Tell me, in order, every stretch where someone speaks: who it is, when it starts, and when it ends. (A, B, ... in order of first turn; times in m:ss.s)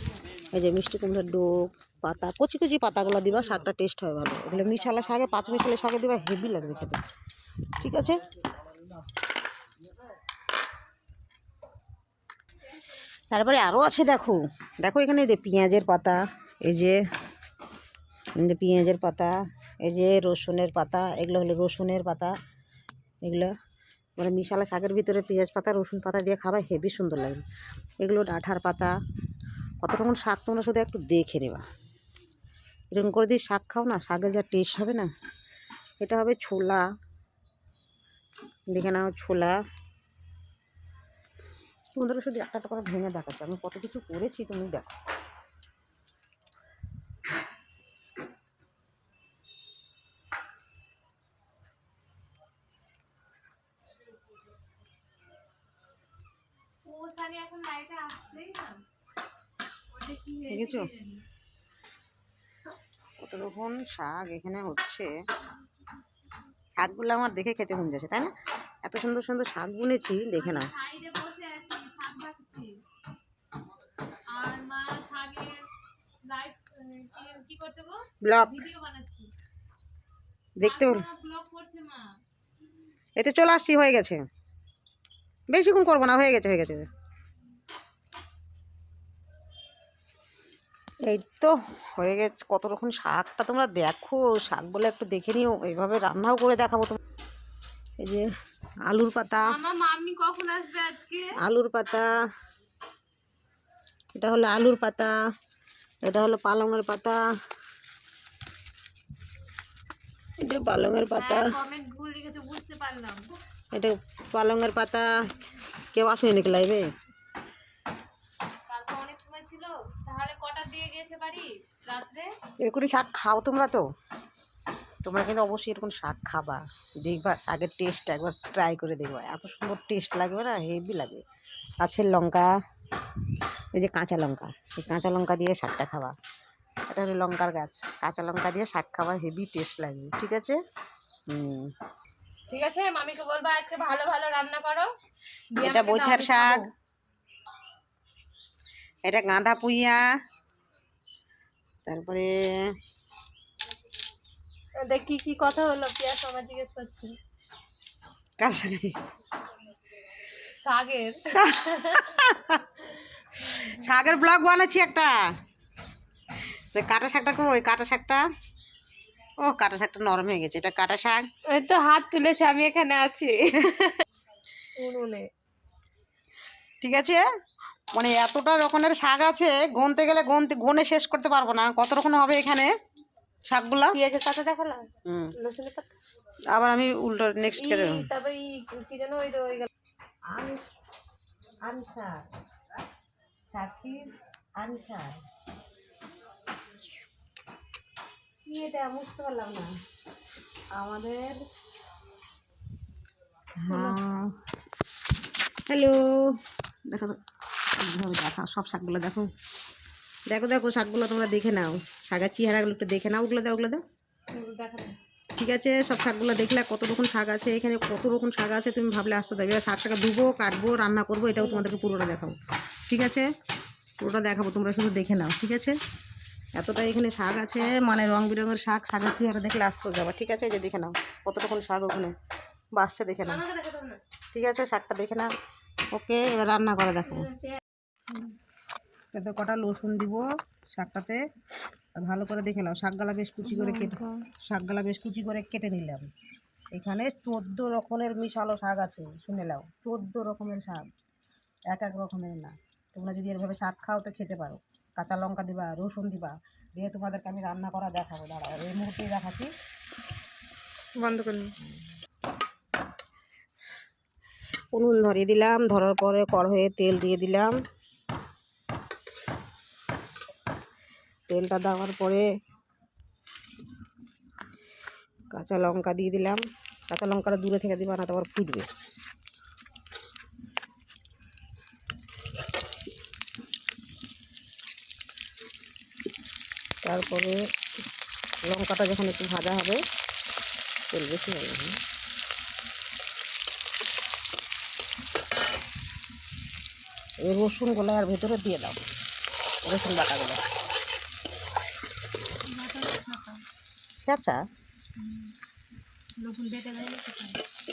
0:00.5-0:07.0 A
0:07.8-0:08.3 A
0:13.3-0:17.0 A
0:18.4-0:22.3 A
0:23.2-0:23.5 A
0:24.2-0:27.4 A
0:28.0-0:28.9 A
0:29.8-0:31.6 A
0:32.9-0:35.1 A
0:36.0-0:36.8 A
0:38.7-0:39.6 A
0:42.0-0:44.9 A
0:56.8-0:58.8 B
0:59.9-1:01.2 B
1:00.5-1:00.9 A
1:03.2-1:05.1 A
1:06.8-1:08.3 A
1:08.8-1:10.7 A
1:10.4-1:12.7 B
1:14.4-1:15.7 B
1:16.3-1:19.3 B
1:18.2-1:18.7 A
1:20.6-1:21.0 A
1:20.6-1:22.2 B
1:23.2-1:24.2 A
1:25.5-1:26.9 A
1:31.0-1:37.0 A
1:38.0-1:38.3 A
1:38.9-1:39.5 A
1:39.5-1:41.3 B
1:41.4-1:42.1 A
1:44.2-1:45.1 A
1:46.0-1:47.2 A
1:50.4-1:51.5 A
1:51.2-1:53.3 B
1:53.7-1:55.1 A
1:55.9-1:56.9 A
1:58.7-2:02.3 B
2:02.6-2:03.9 A
2:05.0-2:11.2 A
2:11.8-2:12.5 A
2:13.7-2:16.1 A
2:16.9-2:20.6 A
2:21.3-2:21.7 A
2:22.5-2:24.9 B
2:25.6-2:26.6 A
2:25.6-2:26.6 B
2:29.0-2:30.0 A
2:31.9-2:32.7 A
2:34.8-2:37.1 B
2:38.4-2:39.0 A
2:40.6-2:41.2 B
2:41.3-2:42.6 A
2:43.5-2:45.2 A
2:46.6-2:48.2 A
2:49.4-2:51.2 A
2:51.5-2:54.0 B
2:54.8-2:55.3 B
2:56.8-2:57.2 A
2:57.9-3:02.7 A
3:03.5-3:04.0 A
3:03.9-3:05.9 B
3:05.0-3:05.3 A
3:06.5-3:08.1 A
3:07.6-3:09.7 B
3:10.3-3:10.6 A
3:11.7-3:12.3 A
3:13.5-3:14.0 A
3:14.6-3:15.2 A
3:18.5-3:19.7 A
3:20.8-3:21.4 A
3:23.6-3:24.4 A
3:23.7-3:24.0 B
3:25.7-3:26.4 A
3:26.9-3:27.2 A
3:27.8-3:29.3 A
3:30.3-3:33.8 A
3:34.3-3:35.0 B
3:35.4-3:42.4 A
3:42.9-3:43.3 A
3:44.0-3:45.8 A
3:46.6-3:52.1 A
3:52.8-3:53.4 A
3:53.3-3:54.0 B
3:54.3-3:55.3 A
3:55.9-3:57.3 A
3:59.1-4:01.2 A
4:02.0-4:06.1 A
4:03.6-4:04.2 B
4:06.7-4:10.9 A
4:11.7-4:19.5 A
4:21.0-4:21.5 B
4:24.7-4:27.5 A
4:31.3-4:32.2 A
4:35.3-4:38.7 A
4:46.8-4:47.4 A
4:48.5-4:49.8 A
4:50.9-4:51.8 A
4:57.2-4:58.8 A
4:59.7-5:00.4 A
5:02.5-5:03.4 B
5:04.0-5:04.4 A
5:05.0-5:05.3 B
5:06.2-5:07.4 B